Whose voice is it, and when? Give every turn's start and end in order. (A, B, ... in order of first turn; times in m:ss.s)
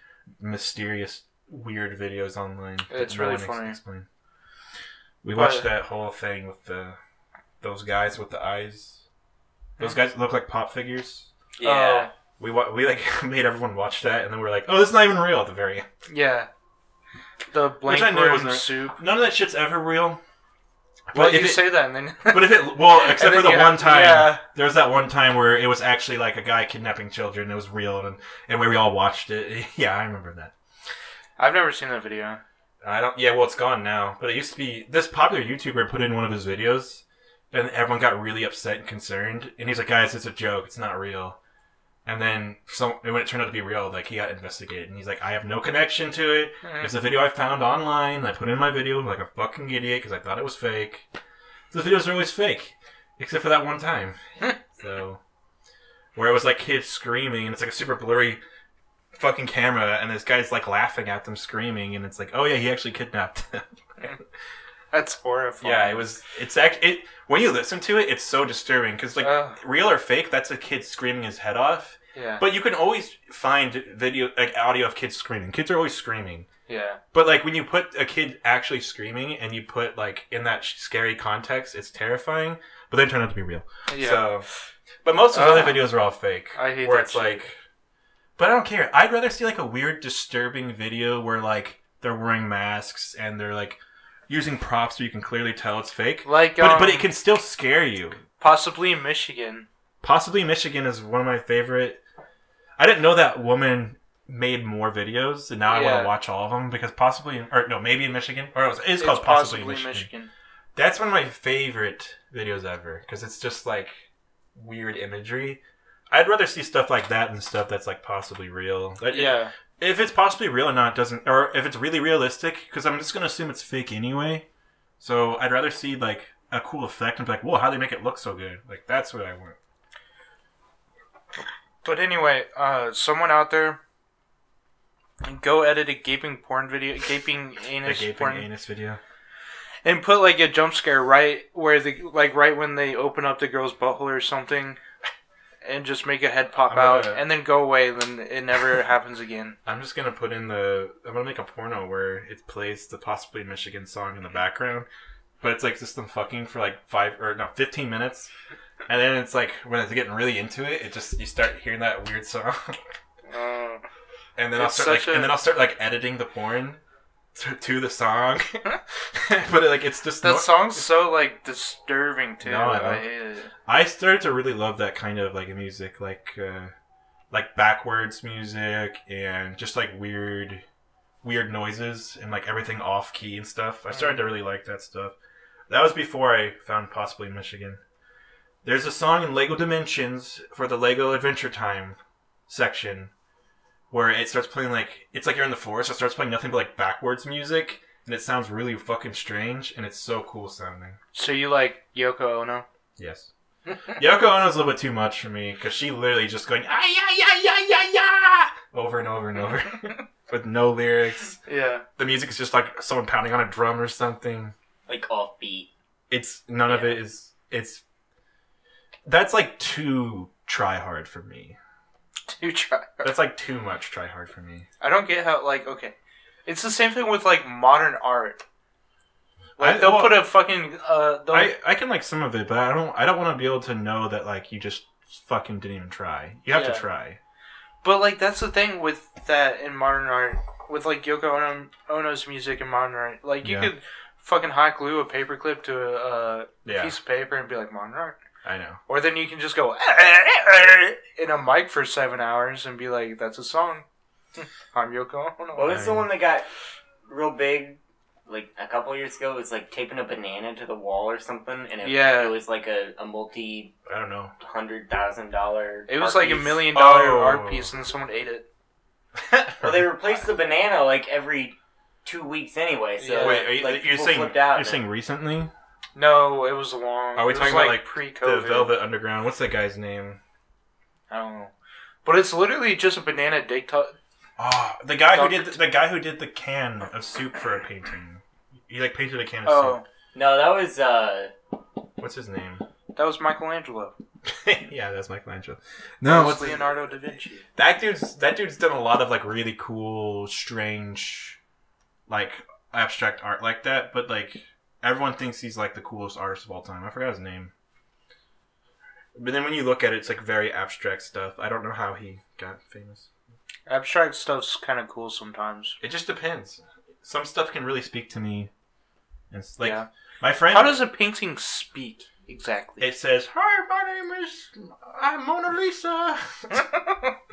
0:00.4-0:04.0 A
0:02.9-0:03.8 B
0:05.2-0:07.0 A
0:05.3-0:05.7 B
0:07.6-0:09.0 A
0:09.8-0:11.3 A
0:11.6-0:12.1 C
0:11.6-0:12.1 B
0:12.4-0:15.8 A
0:16.1-0:16.5 B
0:17.5-0:19.0 B
0:17.8-0:20.2 A
0:21.1-0:21.7 A
0:21.1-0:24.4 B
0:22.2-0:30.5 A
0:31.4-0:32.4 B
0:32.8-0:41.4 A
0:42.0-0:51.0 A
0:46.6-0:46.9 B
0:51.7-0:54.2 A
0:54.7-0:55.2 A
0:56.1-0:58.4 A
0:59.1-1:04.1 A
1:04.9-1:06.1 B
1:05.6-1:16.5 A
1:09.2-1:09.6 B
1:12.1-1:12.4 B
1:16.7-1:17.0 B
1:17.1-1:24.4 A
1:23.9-1:24.3 B
1:25.0-1:27.6 A
1:25.3-1:25.9 B
1:26.5-1:27.4 B
1:28.4-1:38.2 A
1:36.2-1:37.1 B
1:38.4-1:39.7 B
1:40.0-1:42.0 A
1:42.8-1:50.1 A
1:45.7-1:46.1 B
1:49.0-1:50.3 B
1:50.8-1:55.6 A
1:56.1-2:04.4 A
1:59.1-1:59.5 B
2:05.0-2:09.6 A
2:11.8-2:13.8 B
2:15.2-2:18.5 B
2:17.8-2:19.0 A
2:19.8-2:24.8 B
2:25.6-2:29.6 B
2:26.7-2:27.3 A
2:29.6-2:34.9 A
2:35.4-2:38.3 A
2:38.9-2:42.8 A
2:43.3-2:43.8 B
2:44.4-2:46.8 A
2:44.6-2:45.3 B
2:47.3-2:50.8 A
2:50.2-2:53.5 B
2:52.4-2:53.0 A
2:53.6-2:56.7 A
2:57.3-3:00.6 A
3:01.2-3:05.1 A
3:03.9-3:04.2 B
3:05.7-3:07.8 A
3:08.6-3:13.1 A
3:13.9-3:21.0 A
3:21.1-3:22.6 B
3:23.0-3:23.3 A
3:24.0-3:31.4 A
3:31.4-3:31.8 B
3:32.0-3:34.5 A
3:34.9-3:35.7 C
3:36.1-3:37.8 A
3:36.6-3:37.0 C
3:39.0-3:41.6 A
3:42.3-3:43.0 B
3:43.0-3:44.6 A
3:44.8-3:45.9 B
3:46.4-3:48.4 B
3:49.6-3:51.5 B
3:49.6-3:50.3 A
3:51.3-3:57.2 A
3:56.5-3:56.8 B
3:57.8-4:08.2 B
4:03.4-4:03.7 A
4:06.6-4:06.9 A
4:08.4-4:08.8 A
4:08.9-4:13.8 B
4:14.4-4:15.8 B
4:15.5-4:16.4 C
4:15.6-4:16.1 A
4:17.1-4:23.7 C
4:21.8-4:22.3 B
4:23.8-4:24.3 A
4:24.4-4:26.7 C
4:25.9-4:28.4 B
4:26.7-4:27.7 A
4:29.2-4:30.2 A
4:29.6-4:34.8 C
4:33.0-4:33.6 B
4:33.2-4:35.5 A
4:35.9-4:38.7 B
4:37.2-4:40.2 A
4:41.1-4:41.5 B
4:42.0-4:43.9 B
4:44.4-4:49.8 A
4:45.1-4:45.6 B
4:49.4-4:49.8 B
4:50.1-4:51.3 C
4:52.0-4:52.6 A
4:52.9-4:53.9 B
4:54.2-4:56.6 A
4:56.0-4:57.5 B
4:57.5-5:01.4 A
5:02.1-5:07.5 A
5:09.1-5:13.1 A
5:13.6-5:15.8 B
5:15.8-5:18.5 A
5:19.3-5:20.8 A
5:19.6-5:19.9 B
5:20.5-5:22.8 B
5:22.8-5:26.6 A
5:26.5-5:27.1 B